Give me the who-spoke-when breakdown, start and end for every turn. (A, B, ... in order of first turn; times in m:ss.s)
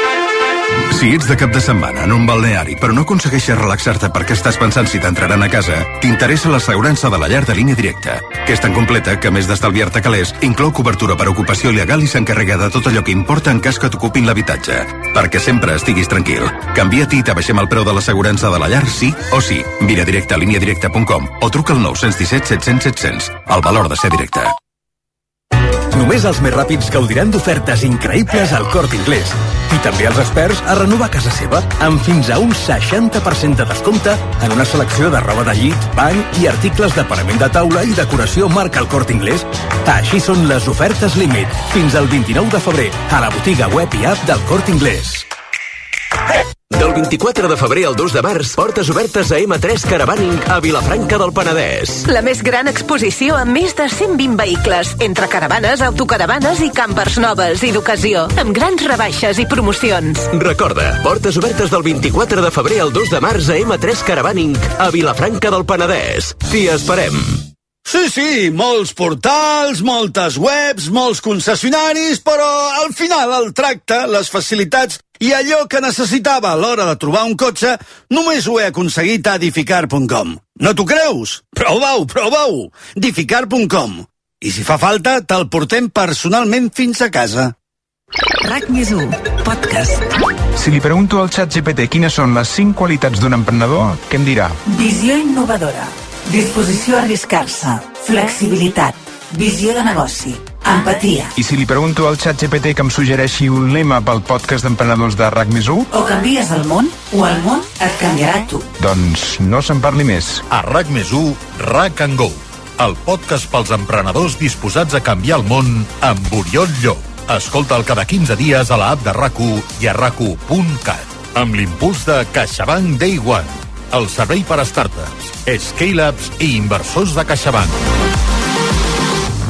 0:00.9-0:24.5 A
0:25.9-0:45.2 B
0:46.7-0:52.0 C
0:52.0-1:00.2 D
1:00.2-1:07.4 C
1:07.8-1:27.5 E
1:28.5-1:28.8 F
1:30.5-1:34.6 G
1:35.1-1:35.6 F
1:36.3-1:38.9 F
1:39.4-1:40.2 F
1:40.8-1:41.3 F
1:41.3-1:45.9 G
1:46.3-1:46.7 F
1:47.6-1:48.6 F
1:48.8-1:50.4 G
1:50.5-2:07.7 H